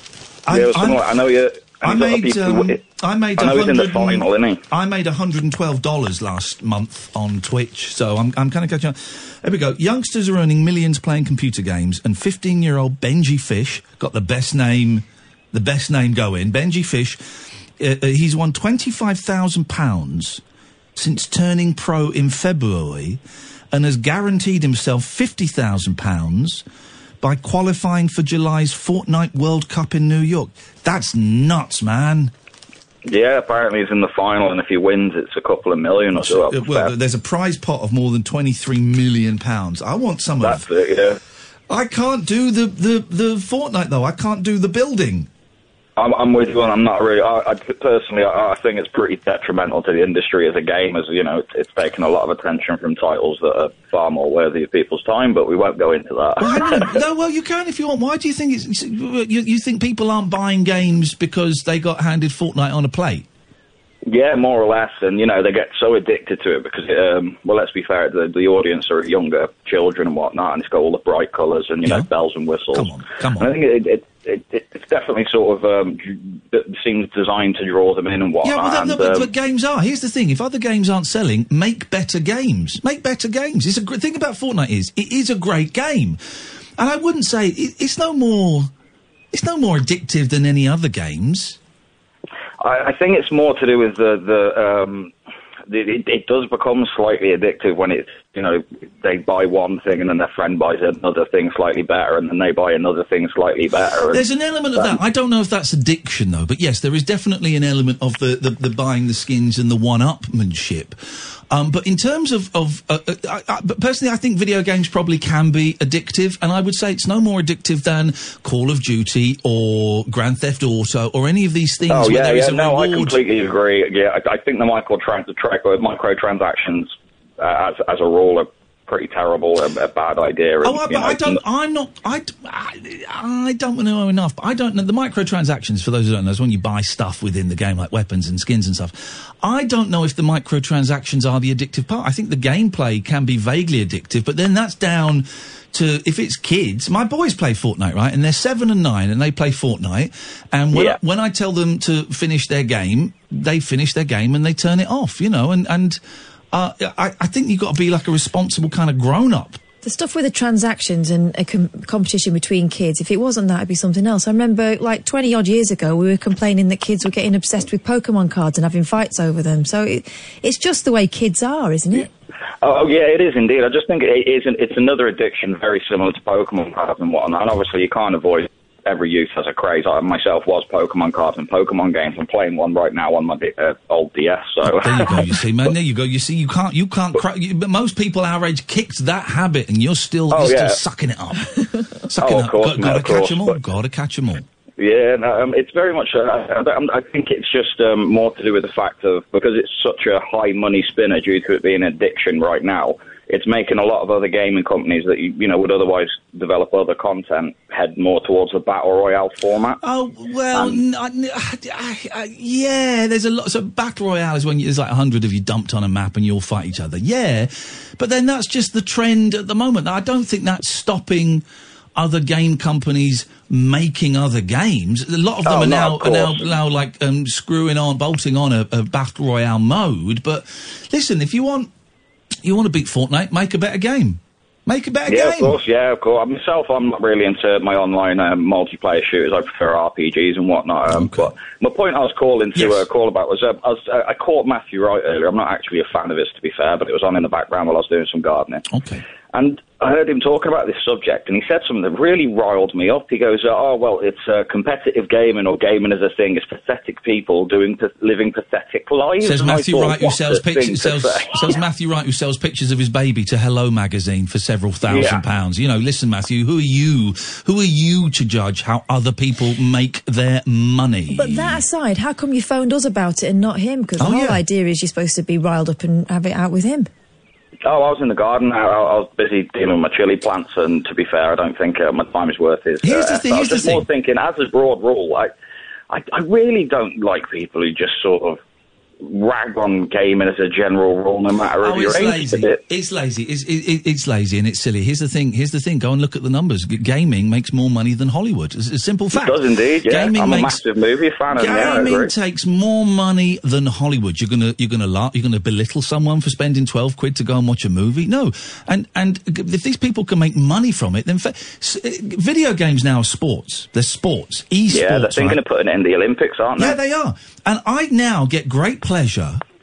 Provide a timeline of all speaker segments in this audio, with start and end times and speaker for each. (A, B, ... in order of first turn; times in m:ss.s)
0:00.4-0:01.1 A
0:00.5-0:02.8 B
0:01.8-0:17.2 A
0:03.4-0:04.6 B
0:17.8-0:20.4 A
0:21.0-0:23.2 A
0:23.7-0:26.6 A
0:27.2-0:32.3 A
0:33.0-0:36.9 B
0:36.1-0:40.6 A
0:40.4-0:41.2 B
0:41.7-0:45.3 A
0:46.0-0:57.0 B
0:56.4-1:03.3 A
1:04.0-1:19.3 B
1:12.7-1:13.5 A
1:18.4-1:26.2 A
1:26.8-1:28.7 A
1:29.3-1:31.6 A
1:32.6-1:35.1 B
1:35.7-1:44.2 B
1:44.1-2:03.2 A
2:01.9-2:11.4 B
2:10.6-2:36.0 A
2:30.7-2:31.0 B
2:36.5-2:39.6 A
2:39.8-2:52.1 C
2:52.6-3:05.4 B
3:04.6-3:14.4 A
3:10.3-3:10.8 B
3:12.2-3:13.6 B
3:14.8-3:29.8 B
3:29.8-3:41.4 A
3:30.5-3:30.8 B
3:42.0-3:51.7 A
3:45.4-3:46.5 B
3:52.4-3:55.6 A
3:55.1-4:08.6 B
4:00.9-4:01.3 A
4:02.5-4:02.9 A
4:08.7-4:09.0 A
4:09.3-4:21.5 B
4:19.2-4:31.6 A
4:24.8-4:25.2 B
4:31.1-4:36.9 C
4:34.0-4:34.4 A
4:37.6-4:45.3 B
4:42.8-4:43.9 A
4:45.9-4:48.4 B
4:49.0-4:52.6 B
4:51.6-5:00.6 A
4:59.1-5:02.1 B
5:01.3-5:15.4 A
5:14.7-5:16.8 B
5:16.6-5:19.4 A